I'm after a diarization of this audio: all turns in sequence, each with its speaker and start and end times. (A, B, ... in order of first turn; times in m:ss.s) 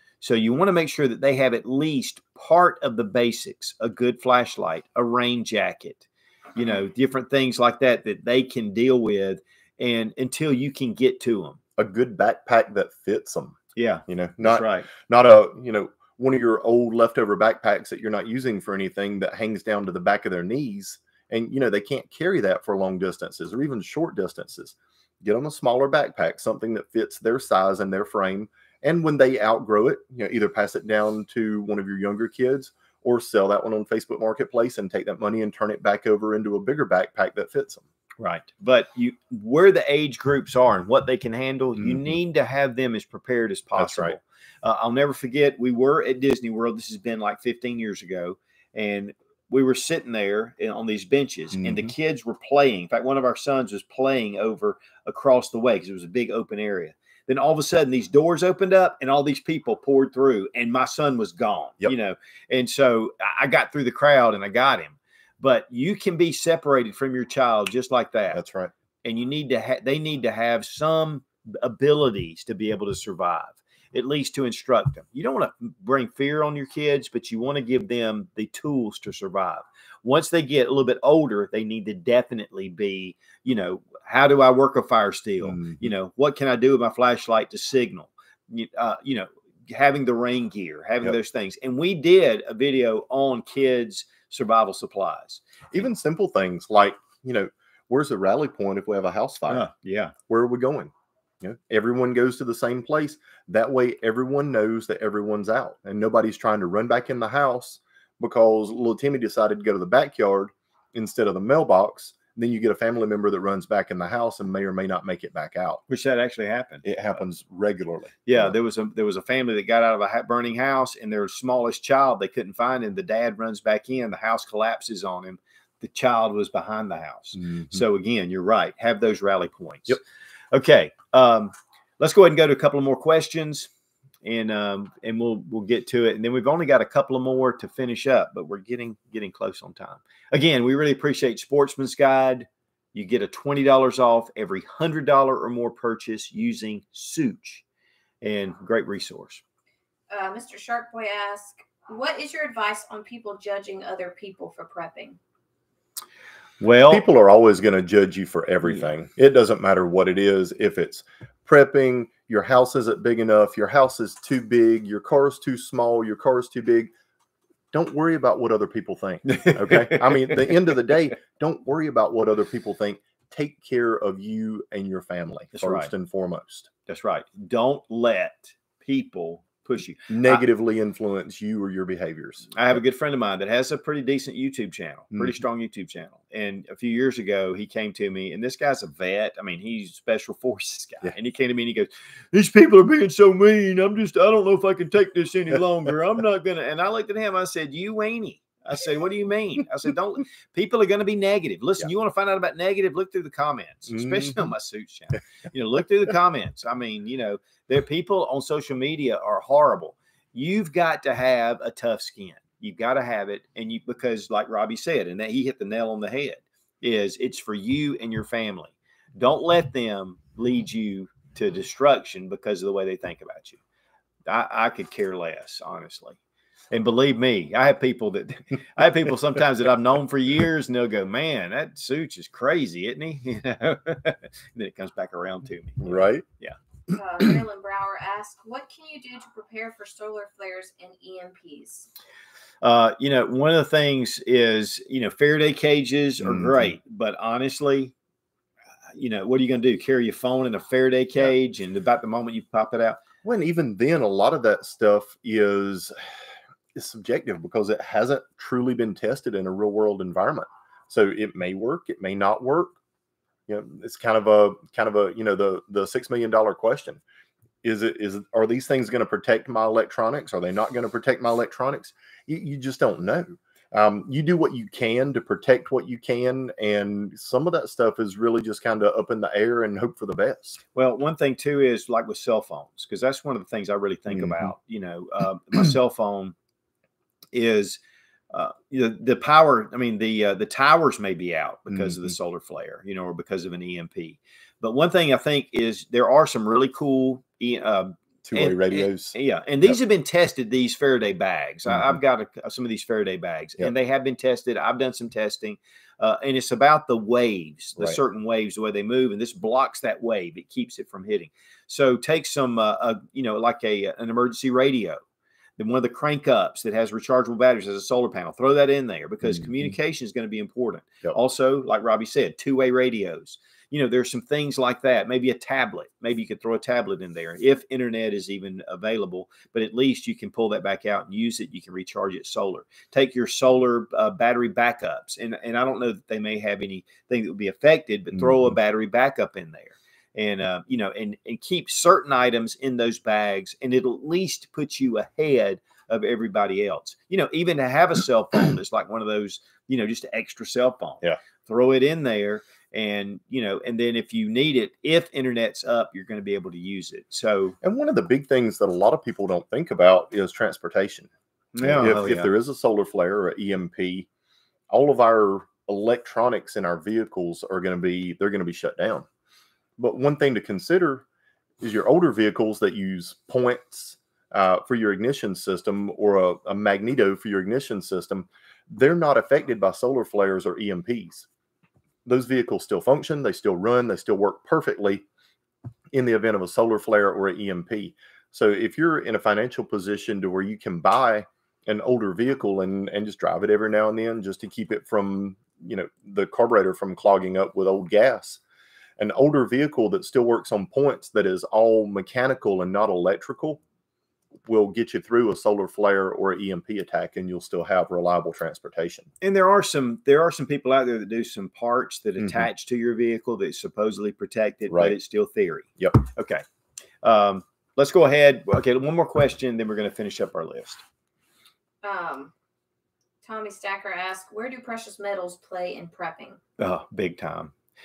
0:00.2-0:11.6 A
0:11.8-0:37.8 B
0:13.8-0:14.9 A
0:38.2-1:08.4 A
0:41.8-0:42.1 B
0:43.8-0:44.2 B
0:51.6-0:51.9 B
1:08.3-1:08.7 B
1:09.0-1:35.8 A
1:25.4-1:25.9 B
1:35.7-1:39.7 B
1:39.5-1:40.1 A
1:40.3-1:55.8 B
1:55.9-1:56.9 A
1:56.8-1:58.6 B
1:58.3-2:10.0 A
2:07.4-2:07.8 B
2:10.5-2:13.7 A
2:14.2-2:27.6 A
2:28.2-2:29.4 A
2:30.1-2:35.2 C
2:36.6-2:37.0 A
2:36.9-2:46.9 B
2:47.7-2:56.7 B
2:49.3-2:50.6 A
2:55.5-2:55.9 A
2:56.9-3:00.4 A
3:00.1-3:02.6 B
3:02.6-3:43.6 A
3:44.3-3:46.2 A
3:46.7-3:56.6 A
3:55.8-3:56.3 B
3:56.9-4:01.9 C
4:02.6-4:07.9 A
4:06.2-4:06.7 B
4:09.0-4:13.0 A
4:13.2-4:16.0 B
4:16.8-4:22.8 B
4:23.5-4:27.0 B
4:27.6-4:40.6 B
4:40.8-4:46.4 A
4:44.1-4:44.5 B
4:47.3-4:47.8 A
4:48.3-5:15.0 A
4:51.7-4:52.1 B
4:58.3-4:59.8 B
5:01.7-5:02.0 B
5:15.6-5:57.6 A
5:57.6-6:01.1 B
6:01.6-6:02.3 A
6:01.6-6:04.1 B
6:04.7-6:09.1 B
6:09.8-6:11.1 B
6:11.6-6:21.3 B
6:22.0-6:25.0 B
6:25.9-6:38.4 B
6:39.0-6:43.6 B
6:44.5-6:49.1 B
6:49.2-6:56.4 A
6:52.2-6:52.5 B
6:54.7-6:55.0 B
6:57.0-7:00.8 A
7:01.8-7:02.3 C
7:03.2-7:06.4 C
7:06.6-7:07.5 A